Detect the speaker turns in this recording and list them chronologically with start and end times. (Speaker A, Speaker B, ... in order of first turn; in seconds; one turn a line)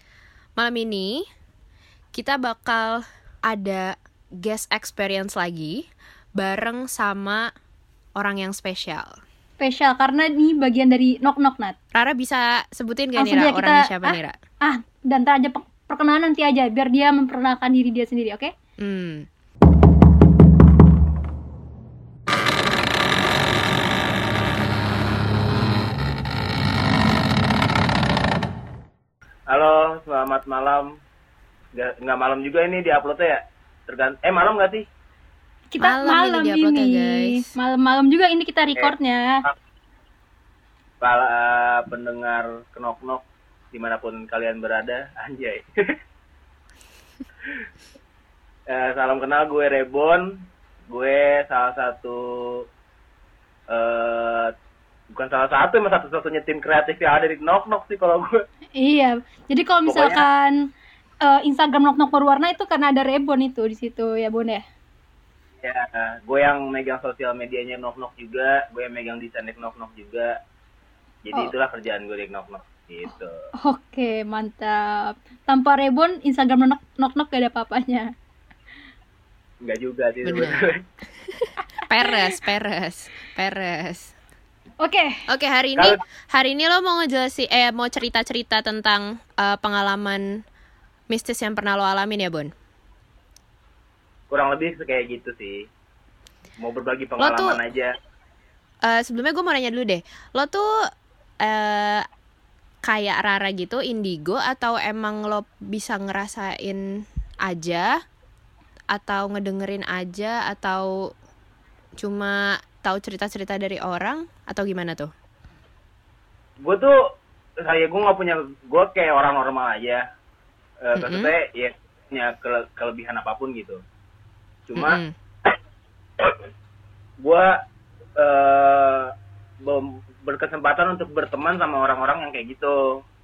Speaker A: 0.6-1.2
Speaker A: 2.1-5.8
Speaker A: 6.4-7.5
Speaker A: 8.2-9.2
Speaker B: 9.6-11.8
Speaker A: 11.9-14.4
Speaker B: 13.2-18.5
Speaker A: 18.8-19.3
Speaker C: 29.5-31.0
Speaker C: 31.7-34.8
Speaker B: 35.7-39.4
Speaker A: 35.8-37.5
Speaker C: 41.0-45.7
Speaker C: 48.7-50.3
Speaker C: 50.9-52.7
Speaker C: 53.7-54.5
Speaker C: 55.1-58.3
Speaker B: 58.8-60.7
Speaker C: 59.9-60.2
Speaker B: 61.2-64.6
Speaker C: 65.6-70.3
Speaker C: 71.2-73.5
Speaker B: 73.1-78.1
Speaker C: 79.6-80.8
Speaker A: 80.2-80.5
Speaker A: 81.2-84.1
Speaker B: 81.8-82.1
Speaker B: 84.8-85.2
Speaker A: 85.3-90.4
Speaker A: 91.1-92.5
Speaker C: 94.3-95.7
Speaker C: 96.6-98.0
Speaker A: 97.2-97.6
Speaker A: 98.8-100.7
Speaker A: 101.4-102.0
Speaker A: 102.8-106.8
Speaker A: 107.5-107.9
Speaker A: 108.9-110.9
Speaker A: 112.0-115.1
Speaker C: 116.6-117.0
Speaker C: 117.6-120.0
Speaker C: 120.8-123.8
Speaker A: 120.9-121.3
Speaker C: 124.7-125.5
Speaker A: 124.7-125.1
Speaker C: 127.2-127.5
Speaker C: 128.2-133.0